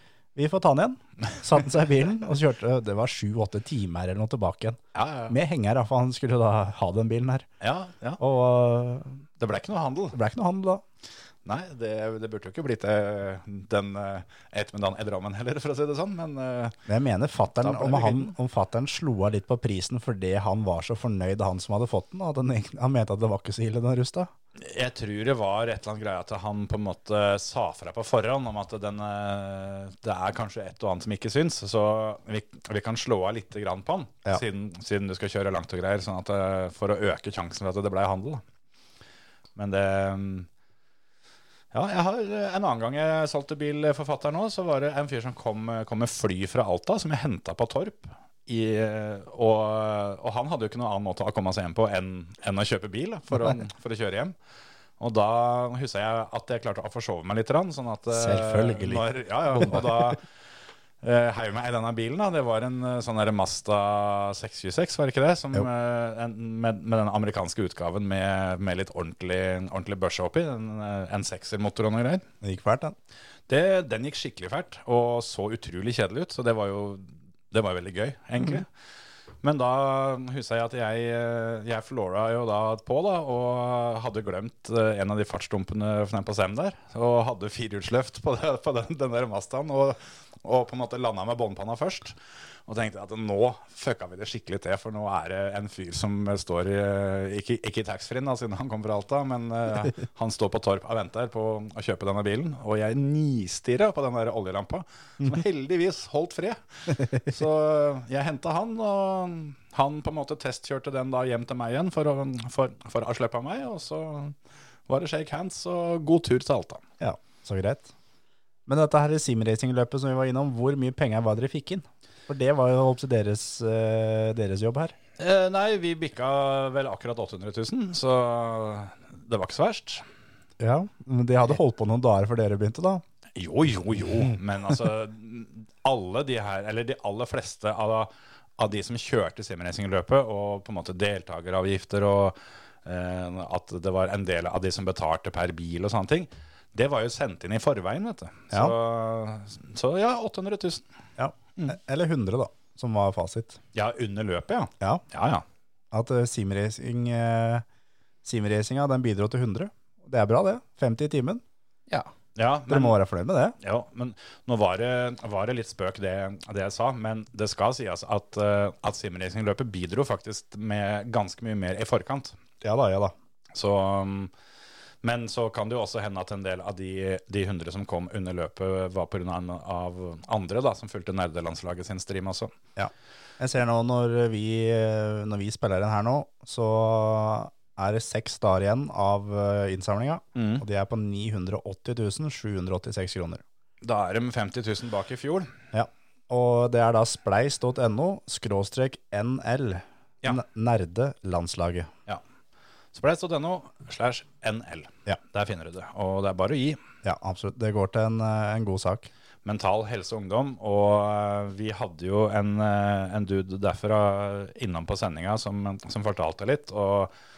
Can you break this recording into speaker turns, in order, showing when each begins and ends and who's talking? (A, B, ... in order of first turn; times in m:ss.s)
0:00.4-0:07.5 A
0:05.0-0:05.4 B
0:07.6-0:08.2 B
0:08.2-0:09.3 A
0:09.4-0:10.2 B
0:10.1-0:10.8 A
0:11.4-0:16.8 B
0:16.9-0:24.3 A
0:17.6-0:18.3 B
0:24.6-0:38.4 B
0:39.6-0:40.5 B
0:41.7-0:54.4 B
0:55.0-1:00.2 B
0:58.1-1:00.1 A
1:01.0-1:12.2 B
1:12.4-1:13.0 A
1:13.5-1:18.7 B
1:19.4-1:32.2 B
1:32.7-1:54.4 B
1:54.9-1:56.8 B
1:57.0-1:57.9 A
1:58.7-2:05.0 A
2:05.2-2:10.0 B
2:10.6-2:13.0 A
2:13.4-2:30.8 B
2:31.2-2:33.6 A
2:33.7-2:35.4 B
2:35.9-2:37.6 A
2:38.2-2:41.4 A
2:42.4-2:43.0 B
2:42.7-2:43.6 A
2:43.6-2:52.4 B
2:52.6-2:53.1 A
2:53.6-2:54.3 B
2:55.0-3:02.5 B
3:02.8-3:13.4 A
3:10.4-3:10.6 B
3:13.8-3:15.5 B
3:15.7-3:21.9 A
3:22.9-3:26.8 B
3:27.0-3:29.1 A
3:29.4-3:37.1 B